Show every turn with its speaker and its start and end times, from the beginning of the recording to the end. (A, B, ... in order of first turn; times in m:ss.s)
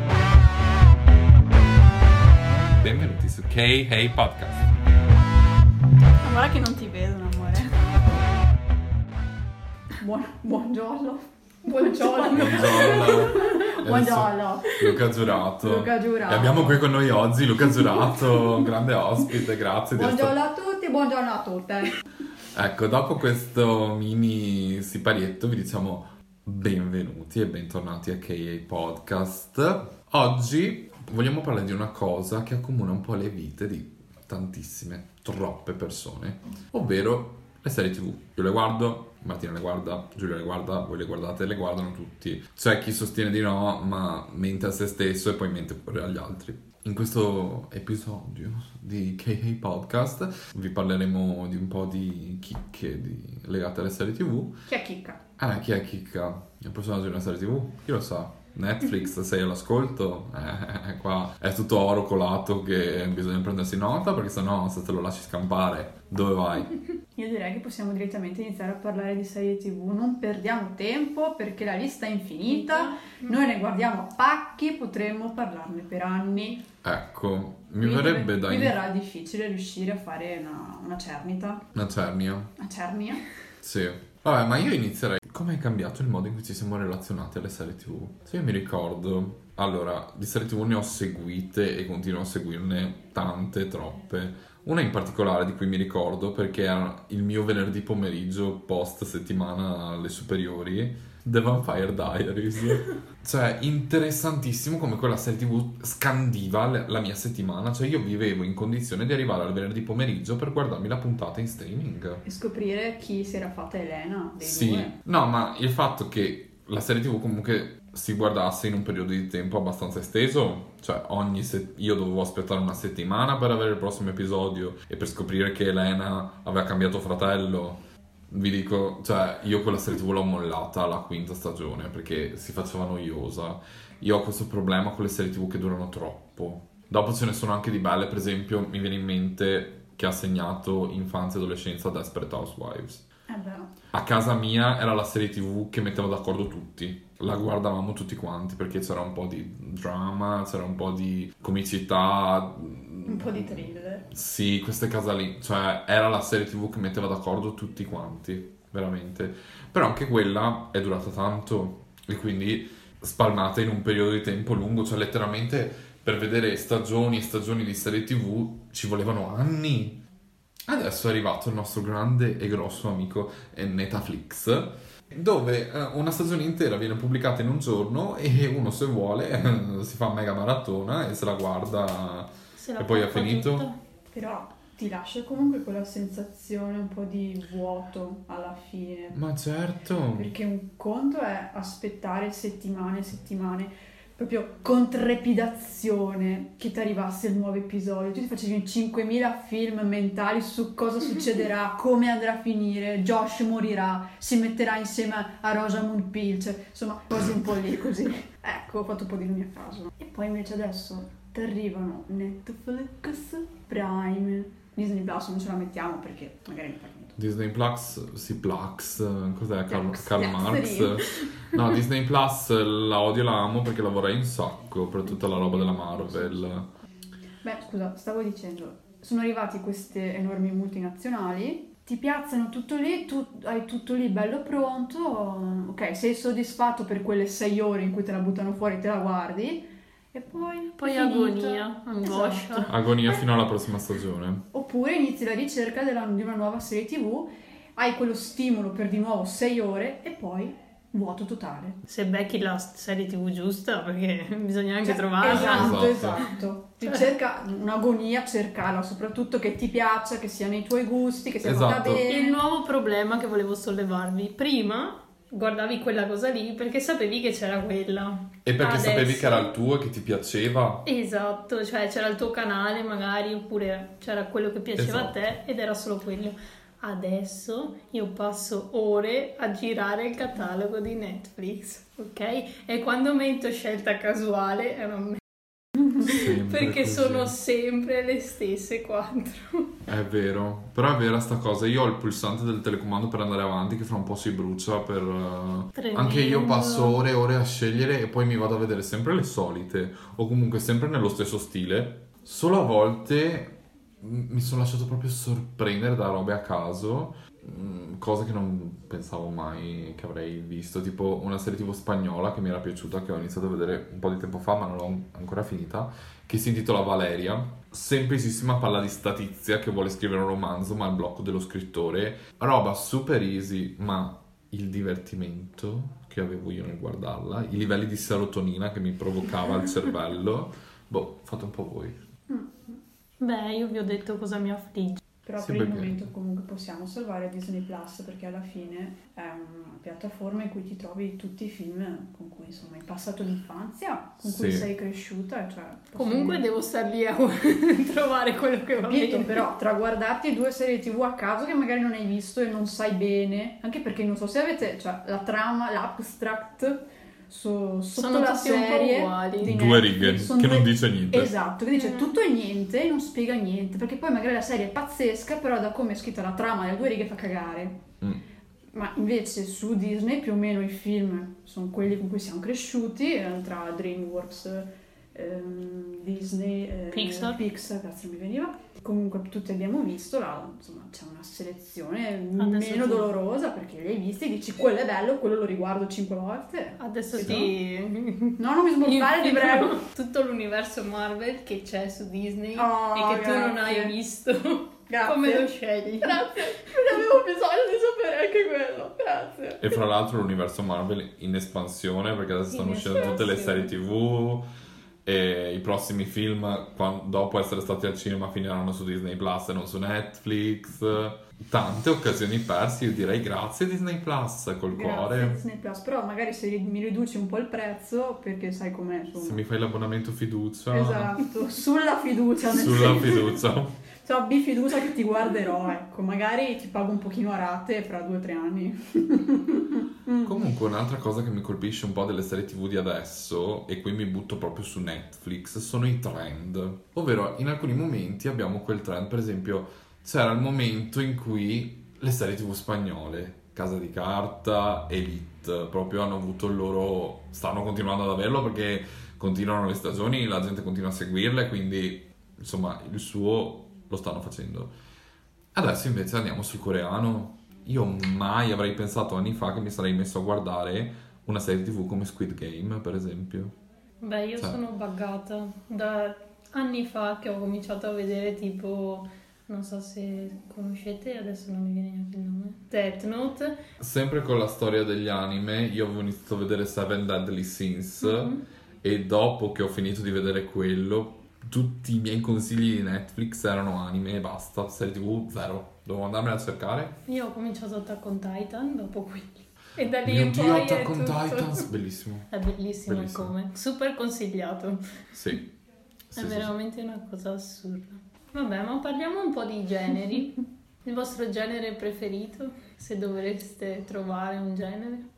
0:02.7-0:04.7 A
0:06.2-0:08.0 B
0:10.0-0:16.8 B
0:11.7-0:13.6 C
0:12.4-0:20.4 A
0:20.0-0:21.9 B
0:22.5-0:54.6 A
0:54.7-0:55.2 B
0:55.4-1:06.7 A
1:07.2-1:16.6 B
1:12.5-1:13.3 C
1:16.8-1:18.8 A
1:17.8-1:21.7 B
1:21.7-1:22.5 A
1:22.6-1:23.2 B
1:23.6-1:52.2 A
1:52.2-1:55.0 B
1:54.4-2:23.0 A
2:23.3-2:23.7 B
2:23.9-2:50.0 A
2:33.1-2:34.1 B
2:50.7-3:03.7 A
3:02.6-3:03.8 C
3:04.1-3:09.2 B
3:09.1-3:10.4 A
3:10.1-3:37.2 B
3:37.2-3:46.7 A
3:39.7-3:41.6 B
3:45.1-3:46.4 B
3:47.4-4:03.2 B
4:00.8-4:02.7 C
4:02.7-4:04.4 A
4:04.5-4:11.8 B
4:11.9-4:16.3 C
4:14.8-4:22.4 B
4:15.2-4:16.3 A
4:21.4-4:22.1 A
4:22.1-4:29.5 C
4:28.4-4:30.8 A
4:30.8-4:45.2 C
4:34.8-4:35.4 A
4:46.0-4:49.7 C
4:46.0-4:47.4 A
4:49.9-5:32.0 A
4:55.8-4:57.0 C
5:32.3-5:32.8 B
5:33.2-5:35.0 C
5:35.2-5:46.4 B
5:35.4-5:36.1 A
5:44.2-5:44.7 A
5:46.0-5:49.4 C
5:48.8-6:07.8 B
5:58.0-5:59.5 C
5:59.4-6:01.3 A
6:01.7-6:02.1 C
6:08.7-6:27.5 B
6:16.9-6:17.4 C
6:22.4-6:23.2 C
6:26.8-6:36.2 C
6:28.4-6:29.8 B
6:32.6-6:33.9 B
6:34.9-6:39.8 B
6:39.6-6:44.5 A
6:42.5-6:43.7 C
6:45.0-6:55.4 A
6:54.7-6:59.4 B
6:59.2-7:01.2 A
7:00.7-7:03.4 B
7:02.5-7:03.8 A
7:04.0-7:10.4 B
7:10.2-7:34.7 A
7:35.5-7:43.6 A
7:44.0-7:53.6 C
7:53.8-8:07.0 A
7:58.0-7:58.4 C
8:07.1-8:11.7 C
8:10.0-8:12.3 A
8:12.3-8:15.0 C
8:12.9-8:13.4 A
8:15.1-8:15.5 A
8:16.1-8:16.5 A
8:16.2-8:25.1 C